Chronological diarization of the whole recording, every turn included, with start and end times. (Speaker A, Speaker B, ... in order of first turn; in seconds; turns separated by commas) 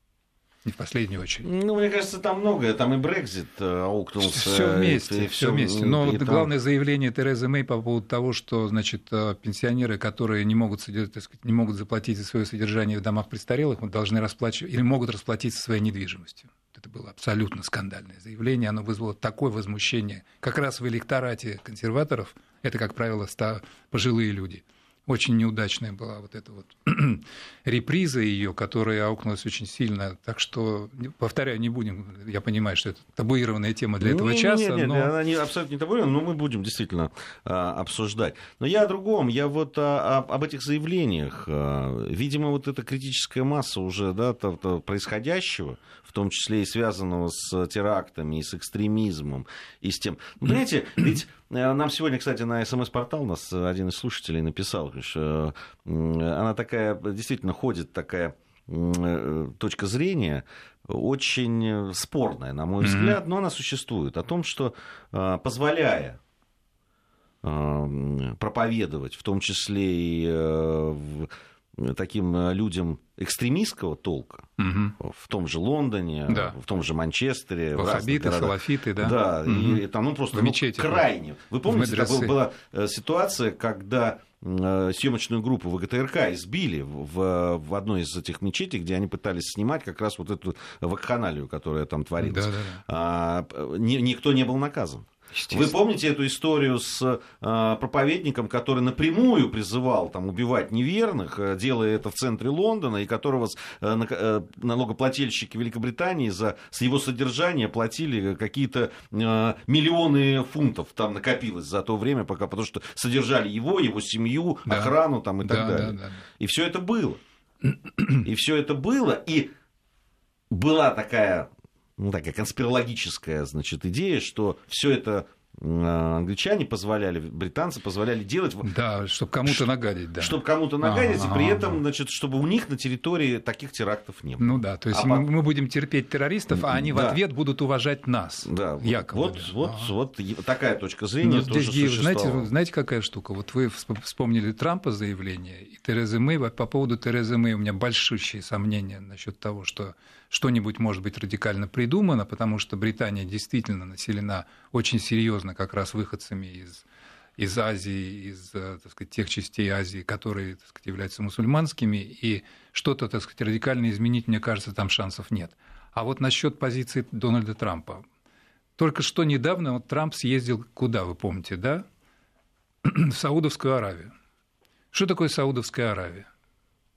Speaker A: 0.6-1.5, Speaker B: 1.4-6.5, Speaker A: 4.2-35.1, Speaker B: 34.0-66.2, Speaker A: 62.8-63.2, Speaker B: 67.4-117.2, Speaker A: 74.6-75.0, Speaker A: 76.3-76.6, Speaker A: 77.8-81.1, Speaker A: 81.7-82.3, Speaker A: 92.2-92.8, Speaker A: 114.7-116.2, Speaker A: 117.6-118.2, Speaker B: 118.2-119.5, Speaker B: 120.5-128.7, Speaker A: 128.7-131.8, Speaker B: 130.2-135.3, Speaker A: 134.4-139.9, Speaker B: 136.5-137.2, Speaker B: 138.4-142.5, Speaker A: 141.2-156.8, Speaker A: 157.4-168.1, Speaker A: 168.8-171.8, Speaker A: 172.8-174.1, Speaker A: 174.9-176.3